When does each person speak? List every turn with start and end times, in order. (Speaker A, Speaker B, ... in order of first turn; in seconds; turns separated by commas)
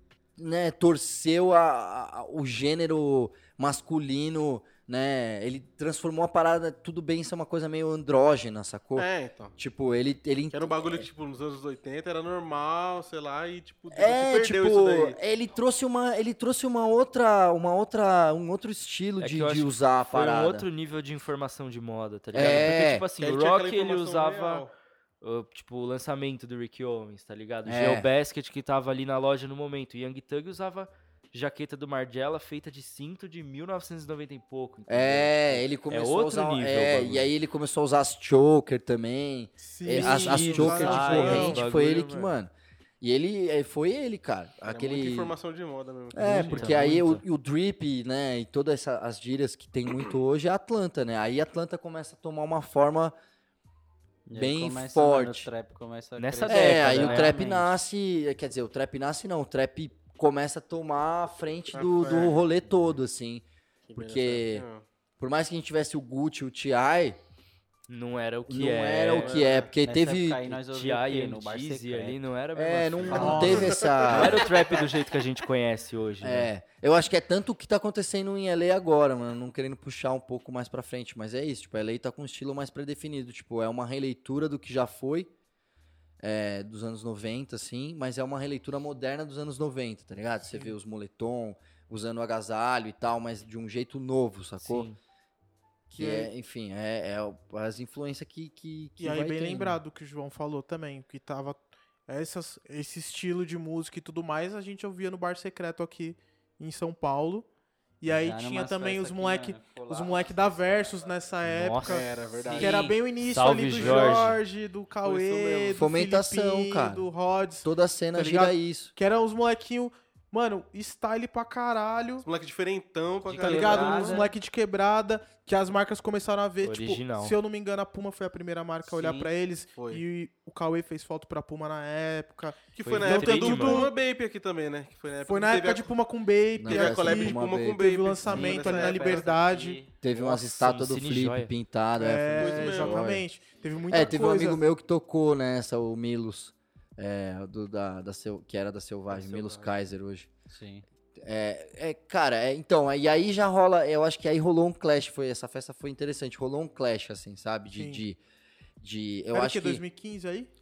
Speaker A: 0.4-11.1, Speaker B: 9.0-9.5, Speaker B: 10.5-15.2, Speaker A: 13.9-20.7, Speaker C: 19.2-24.7, Speaker A: 22.3-23.1, Speaker B: 22.4-24.7, Speaker C: 25.2-37.3, Speaker A: 27.6-28.1, Speaker A: 34.9-45.3, Speaker D: 39.6-41.6, Speaker C: 39.9-42.3, Speaker B: 41.1-41.5, Speaker B: 44.6-46.9, Speaker A: 46.1-53.1, Speaker C: 46.2-47.2, Speaker E: 54.3-57.7, Speaker A: 54.4-55.5, Speaker C: 56.2-57.4, Speaker A: 56.5-63.4, Speaker B: 61.7-62.4, Speaker B: 63.9-64.8, Speaker A: 64.0-64.7, Speaker A: 65.2-67.2, Speaker C: 67.9-69.4, Speaker A: 68.5-70.5, Speaker B: 69.1-69.7, Speaker E: 69.8-72.2, Speaker C: 70.6-76.5, Speaker A: 72.5-74.5, Speaker E: 73.1-73.5, Speaker D: 73.1-73.7, Speaker B: 73.5-74.8, Speaker A: 76.2-85.3, Speaker A: 86.2-94.9, Speaker C: 94.6-95.0, Speaker A: 95.9-99.8, Speaker D: 96.0-96.3, Speaker D: 99.0-107.5, Speaker D: 108.0-122.2, Speaker E: 108.1-111.1, Speaker C: 111.5-114.4, Speaker B: 111.8-112.9, Speaker B: 113.8-114.4, Speaker B: 115.0-115.9, Speaker A: 115.8-117.1, Speaker A: 117.6-118.9, Speaker B: 122.2-124.3, Speaker E: 123.2-124.3, Speaker D: 123.4-133.9, Speaker C: 126.6-127.4, Speaker E: 128.8-129.3, Speaker B: 129.8-130.0, Speaker B: 132.8-135.9, Speaker C: 132.8-133.9, Speaker D: 135.3-139.8, Speaker A: 136.6-137.9, Speaker B: 136.7-139.3, Speaker E: 138.2-139.9, Speaker A: 140.0-143.3, Speaker C: 140.2-141.5, Speaker D: 142.0-144.6, Speaker B: 142.4-143.1, Speaker A: 143.9-150.3, Speaker B: 149.1-149.7, Speaker E: 150.5-150.8, Speaker A: 151.2-158.2, Speaker D: 157.8-158.0, Speaker A: 158.8-159.8, Speaker D: 159.3-160.5